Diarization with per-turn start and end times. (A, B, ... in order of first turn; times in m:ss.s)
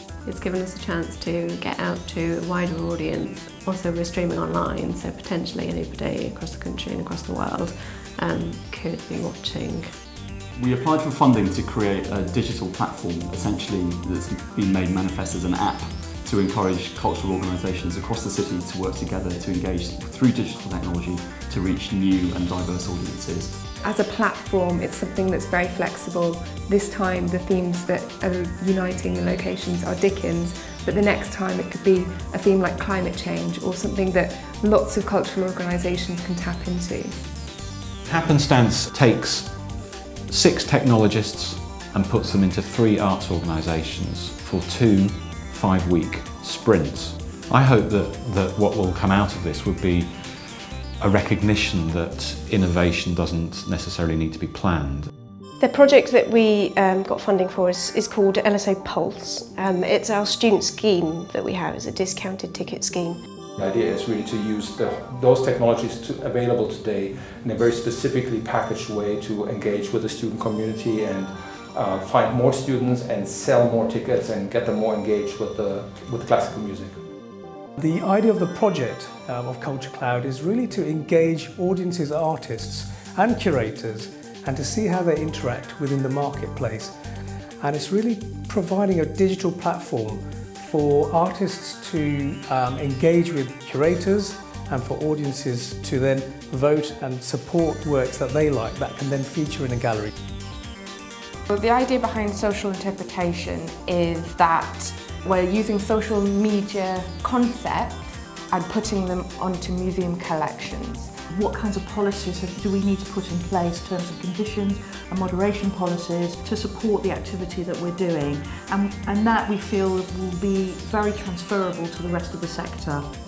0:00.2-0:09.9 A
0:10.5-0:23.6 B
0:23.8-0:37.1 C
0:38.0-0:55.1 D
0:55.6-1:03.2 E
1:03.6-1:17.0 F
1:17.8-1:26.9 G
1:27.6-1:40.1 G
1:41.5-1:51.2 H
1:51.3-2:03.2 I